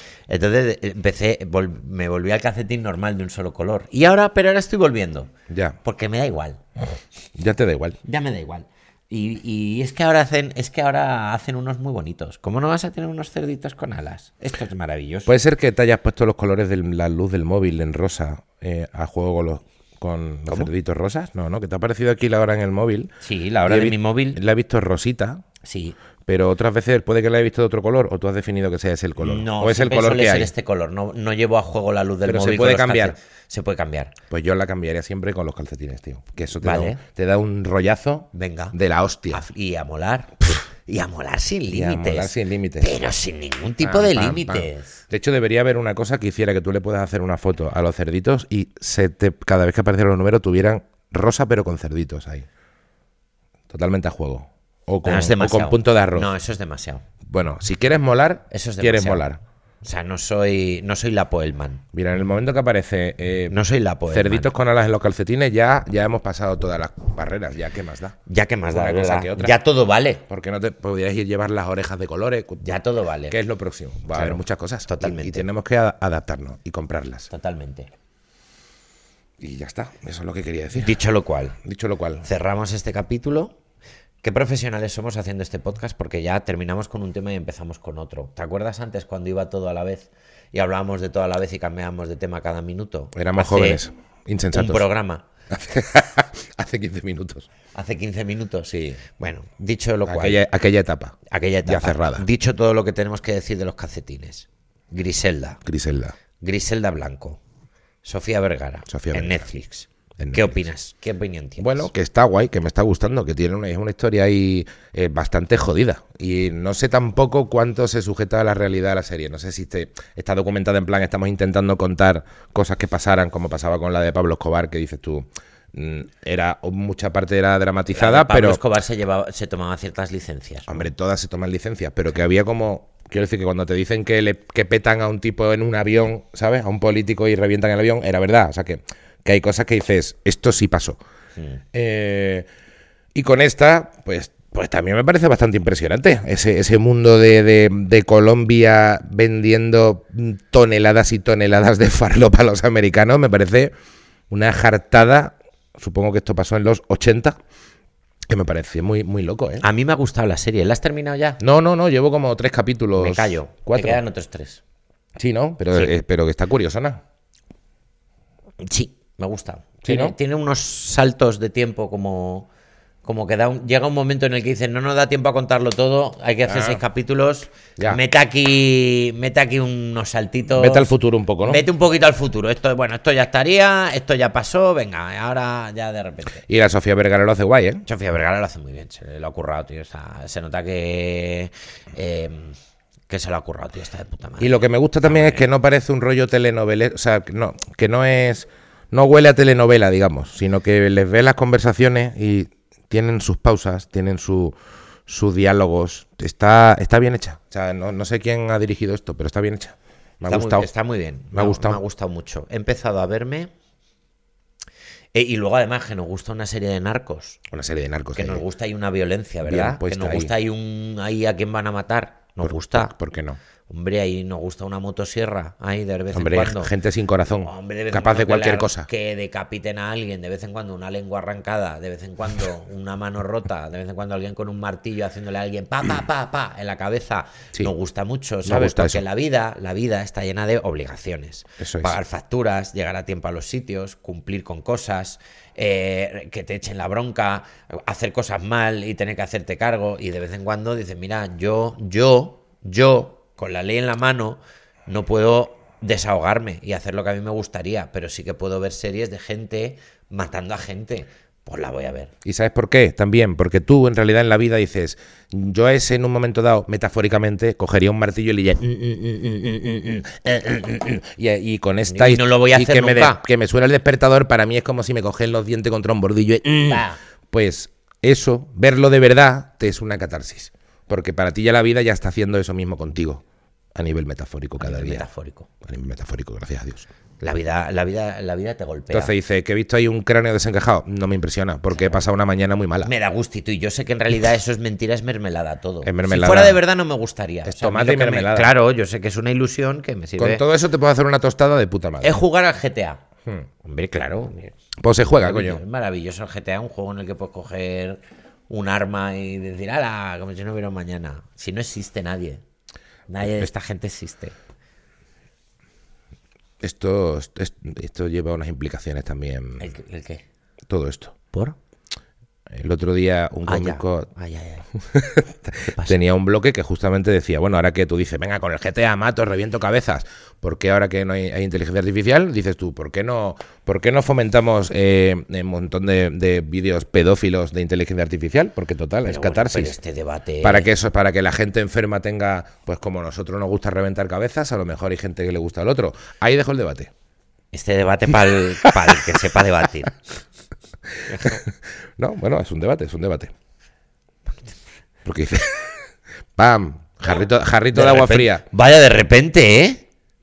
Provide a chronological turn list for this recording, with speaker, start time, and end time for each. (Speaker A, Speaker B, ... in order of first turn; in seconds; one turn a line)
Speaker A: 0.3-5.3
Speaker B: 5.5-5.8
Speaker A: 5.8-6.6
Speaker B: 7.4-8.0
Speaker A: 8.0-15.3
Speaker B: 15.3-23.1
Speaker A: 23.2-24.4
Speaker B: 23.7-25.4
Speaker A: 25.6-26.0
Speaker B: 26.3-30.5
Speaker A: 29.2-34.1
Speaker B: 32.2-33.1
Speaker B: 34.3-39.5
Speaker A: 36.6-37.0
Speaker A: 38.3-38.8
Speaker A: 39.3-45.0
Speaker B: 41.7-43.1
Speaker B: 43.8-52.5
Speaker B: 53.7-56.3
Speaker A: 55.0-57.0
Speaker B: 57.3-59.4
Speaker A: 58.5-59.3
Speaker A: 59.8-61.8
Speaker B: 61.9-63.6
Speaker A: 63.5-64.5
Speaker B: 64.1-68.2
Speaker A: 68.3-70.2
Speaker B: 68.7-69.6
Speaker B: 70.3-72.7
Speaker A: 72.6-73.4
Speaker B: 73.3-77.3
Speaker A: 74.1-75.5
Speaker A: 77.3-77.9
Speaker B: 79.4-81.0
Speaker A: 80.8-81.6
Speaker B: 81.6-82.3
Speaker A: 82.2-83.5
Speaker A: 84.2-93.8
Speaker B: 93.2-94.9
Speaker A: 94.5-95.2
Speaker B: 95.5-97.5
Speaker A: 97.7-100.4
Speaker B: 98.7-99.0
Speaker B: 100.1-102.2
Speaker A: 101.3-105.6
Speaker B: 105.7-106.2
Speaker A: 106.4-107.4
Speaker A: 108.0-111.9
Speaker B: 108.9-109.5
Speaker B: 110.2-110.6
Speaker B: 111.6-128.6
Speaker A: 127.9-130.9
Speaker B: 130.7-141.0
Speaker B: 141.7-142.5
Speaker B: 143.2-153.7
Speaker B: 154.3-157.4
Speaker B: 158.3-159.6
Speaker A: 159.6-161.4
Speaker B: 161.4-164.0
Speaker A: 163.0-164.6
Speaker B: 165.2-167.0
Speaker A: 168.6-172.5
Speaker B: 169.8-170.2
Speaker A: 173.0-186.4
Speaker B: 176.5-176.8
Speaker B: 180.5-181.6
Speaker B: 186.5-187.8
Speaker A: 187.9-192.6
Speaker A: 193.1-195.5
Speaker B: 194.4-204.6
Speaker B: 205.1-210.7
Speaker A: 210.3-213.5
Speaker B: 211.3-211.8
Speaker A: 215.2-217.4
Speaker B: 217.5-218.4
Speaker A: 218.2-222.9
Speaker B: 219.4-220.3
Speaker B: 222.4-223.4
Speaker A: 223.7-226.7
Speaker B: 226.1-228.9
Speaker A: 227.4-262.1
Speaker B: 238.4-239.0
Speaker B: 241.6-242.0
Speaker B: 262.2-268.7
Speaker A: 268.6-270.1
Speaker B: 270.1-283.2
Speaker A: 271.9-273.2
Speaker A: 276.7-277.0
Speaker B: 283.8-285.1
Speaker A: 284.6-285.5
Speaker B: 285.6-286.9
Speaker A: 287.2-289.1
Speaker B: 288.9-292.9
Speaker A: 292.8-300.4
Speaker B: 295.8-296.6
Speaker B: 297.4-298.5
Speaker B: 300.2-302.2
Speaker A: 302.0-303.0
Speaker A: 303.6-304.5
Speaker B: 304.8-305.6
Speaker A: 305.1-312.4
Speaker A: 313.1-314.4
Speaker B: 316.6-319.7
Speaker A: 319.6-320.2
Speaker B: 320.7-321.1
Speaker B: 322.5-324.1
Speaker A: 323.5-324.7
Speaker B: 324.8-339.8
Speaker A: 325.6-326.0
Speaker A: 339.1-340.7
Speaker B: 340.4-346.9
Speaker A: 347.5-350.0
Speaker B: 348.6-349.1
Speaker B: 351.0-353.3
Speaker A: 351.1-351.4
Speaker B: 355.1-355.7
Speaker B: 356.4-358.4
Speaker A: 357.7-359.9